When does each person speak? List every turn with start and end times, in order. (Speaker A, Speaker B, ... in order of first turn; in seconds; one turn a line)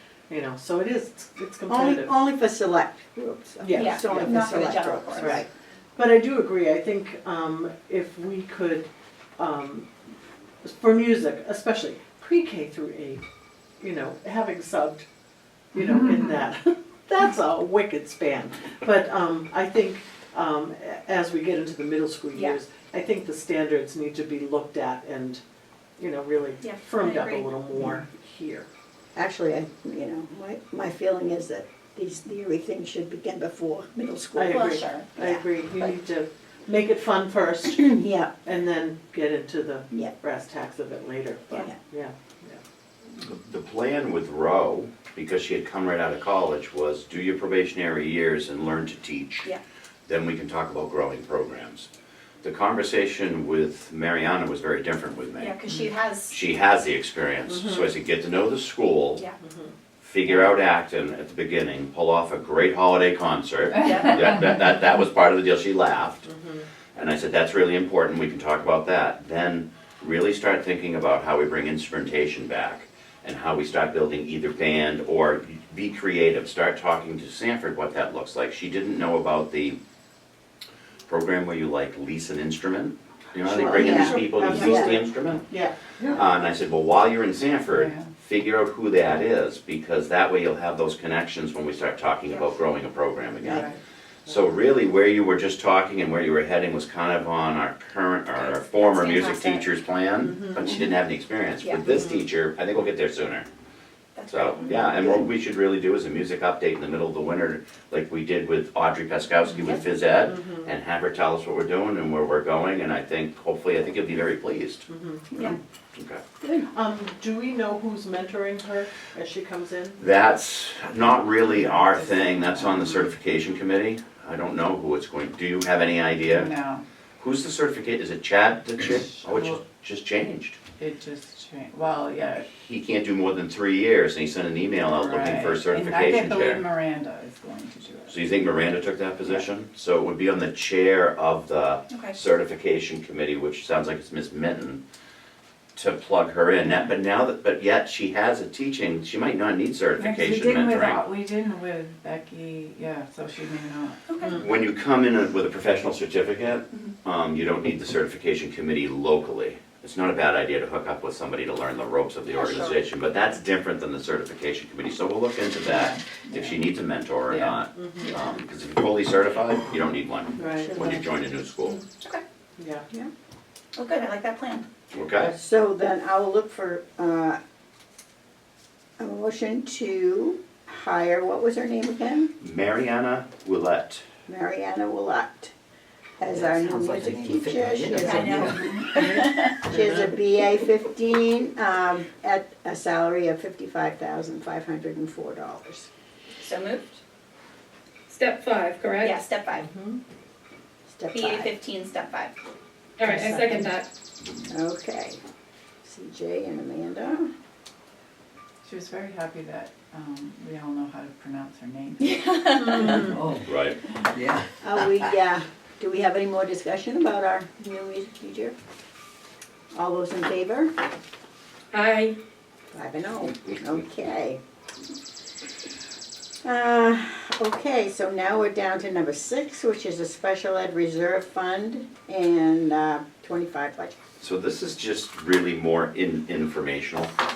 Speaker A: 0.3-2.1
Speaker B: 1.7-5.5
Speaker A: 3.6-4.5
Speaker C: 3.7-5.4
Speaker A: 5.1-9.9
Speaker A: 10.6-13.3
Speaker A: 13.8-15.1
Speaker A: 15.7-25.4
Speaker D: 15.8-16.4
Speaker A: 26.0-28.7
Speaker C: 26.6-27.5
Speaker B: 29.1-35.9
Speaker A: 34.4-42.6
Speaker C: 34.5-35.1
Speaker B: 37.9-38.4
Speaker E: 43.1-49.5
Speaker E: 50.1-51.9
Speaker E: 52.4-55.6
Speaker C: 55.4-56.4
Speaker E: 56.3-59.2
Speaker A: 57.5-57.9
Speaker A: 59.4-60.5
Speaker E: 60.0-66.3
Speaker C: 63.8-64.3
Speaker A: 66.2-66.7
Speaker E: 67.0-79.8
Speaker E: 81.1-93.7
Speaker A: 83.4-86.0
Speaker B: 83.7-85.0
Speaker D: 87.7-88.1
Speaker D: 93.4-93.8
Speaker E: 94.2-103.5
Speaker C: 98.3-99.7
Speaker A: 100.2-100.7
Speaker A: 101.9-102.2
Speaker C: 104.2-105.2
Speaker E: 104.3-116.2
Speaker A: 109.6-110.7
Speaker A: 114.9-115.2
Speaker C: 115.3-115.6
Speaker A: 116.7-120.0
Speaker E: 120.0-126.5
Speaker D: 121.1-123.1
Speaker D: 126.2-126.8
Speaker E: 127.2-130.6
Speaker D: 129.0-129.6
Speaker D: 130.8-132.5
Speaker E: 132.5-136.6
Speaker D: 134.7-138.3
Speaker E: 138.1-144.8
Speaker E: 145.8-151.0
Speaker D: 150.0-154.0
Speaker C: 154.1-154.4
Speaker E: 154.3-171.8
Speaker C: 162.3-162.8
Speaker D: 165.6-166.7
Speaker D: 167.2-167.6
Speaker A: 167.7-168.2
Speaker A: 170.4-170.8
Speaker B: 170.6-171.0
Speaker C: 171.7-172.2
Speaker A: 172.6-172.8
Speaker C: 173.8-174.7
Speaker E: 174.9-175.3
Speaker B: 175.2-177.4
Speaker B: 179.0-182.3
Speaker E: 182.4-184.0
Speaker B: 184.3-185.5
Speaker B: 186.2-195.9
Speaker F: 186.3-188.6
Speaker C: 188.0-189.6
Speaker A: 188.9-190.2
Speaker C: 196.4-197.0
Speaker G: 198.1-199.1
Speaker C: 199.0-199.7
Speaker A: 199.5-200.0
Speaker B: 200.9-201.5
Speaker C: 201.1-202.3
Speaker G: 203.0-203.9
Speaker B: 203.1-203.7
Speaker B: 204.5-205.2
Speaker B: 205.8-207.3
Speaker D: 208.6-212.3
Speaker C: 212.0-213.1
Speaker A: 212.7-213.3
Speaker F: 213.1-213.5
Speaker E: 213.5-213.8
Speaker F: 214.1-214.5
Speaker B: 214.6-218.6
Speaker B: 219.8-220.7
Speaker G: 221.8-222.1
Speaker B: 222.7-224.4
Speaker B: 226.4-233.9
Speaker E: 234.2-237.1